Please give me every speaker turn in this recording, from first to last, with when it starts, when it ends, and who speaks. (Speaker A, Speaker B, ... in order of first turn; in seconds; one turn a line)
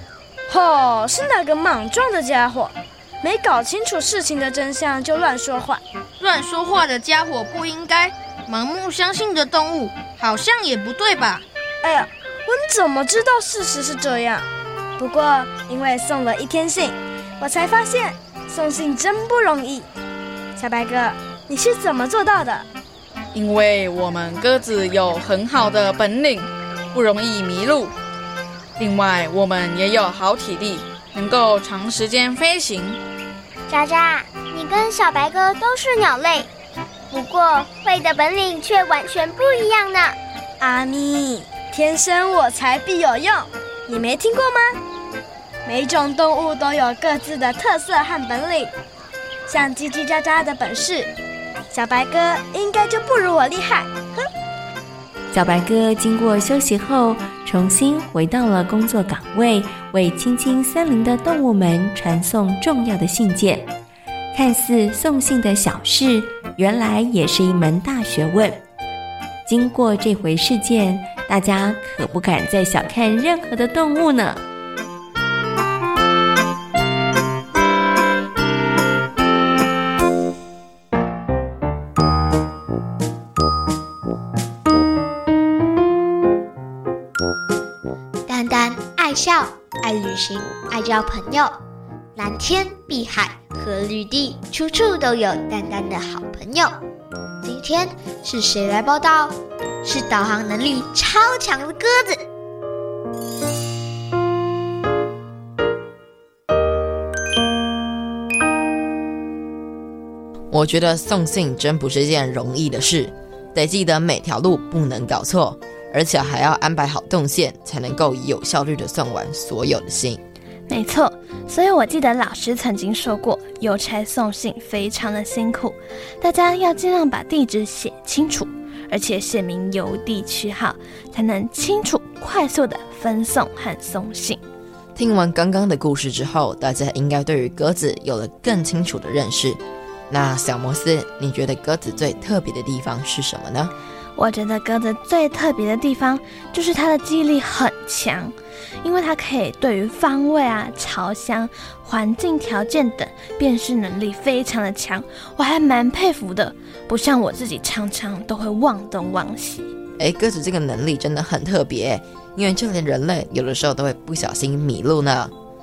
Speaker A: 0.5-5.8
Speaker B: 6.2-11.4
Speaker A: 11.8-19.9
Speaker A: 20.6-22.7
Speaker C: 23.3-27.9
Speaker C: 28.8-33.0
Speaker D: 33.7-36.5
Speaker D: 37.1-40.2
Speaker A: 40.6-44.8
Speaker A: 45.6-48.7
Speaker A: 49.5-51.1
Speaker A: 51.7-54.3
Speaker E: 55.3-63.7
Speaker E: 64.3-68.6
Speaker E: 69.5-74.4
Speaker F: 88.3-91.6
Speaker F: 92.2-96.8
Speaker F: 97.4-102.2
Speaker G: 110.5-120.2
Speaker H: 120.7-134.4
Speaker G: 135.0-143.7
Speaker H: 144.2-159.7
Speaker G: 160.0-165.3